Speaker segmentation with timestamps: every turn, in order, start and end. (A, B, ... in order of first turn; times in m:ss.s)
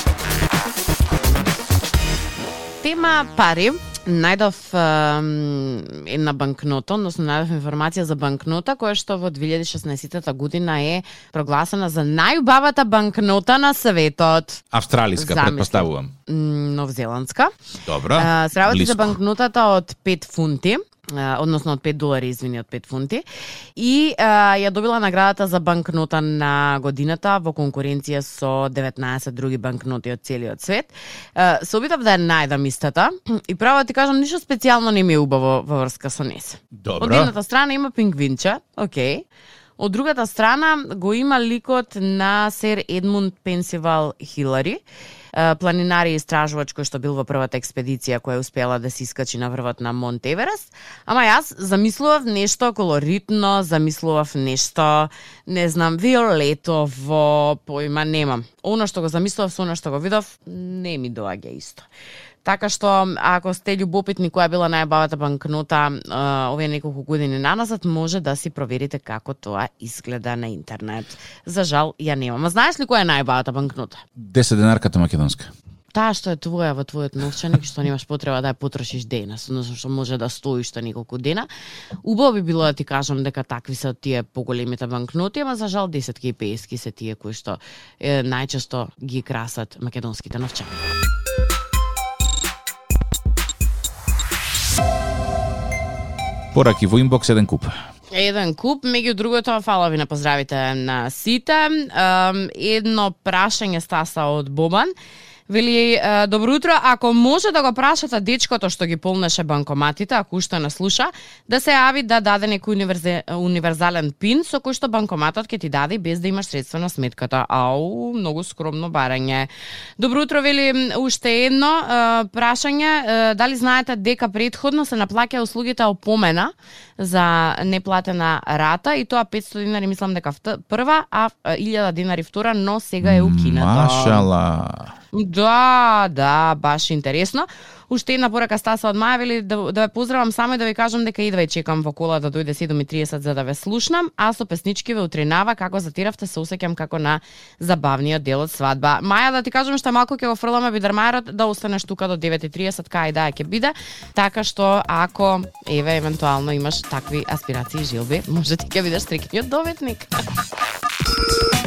0:02.8-0:14.6 A
0:14.7-0:16.1 B
0:15.2-0:17.5 A
0:17.8-0:19.2 B
0:18.1-0:23.2 A
0:23.8-0:39.2 A
0:36.7-0:37.3 B
0:39.8-0:44.8 A
0:45.3-1:01.9 A
1:02.4-1:14.0 A
1:14.2-1:15.5 B
1:15.9-1:21.5 A
1:22.0-1:30.8 A
1:36.5-1:37.8 B
1:38.1-1:44.9 A
1:45.5-2:14.3 A
2:13.0-2:14.9 B
2:15.1-2:40.1 A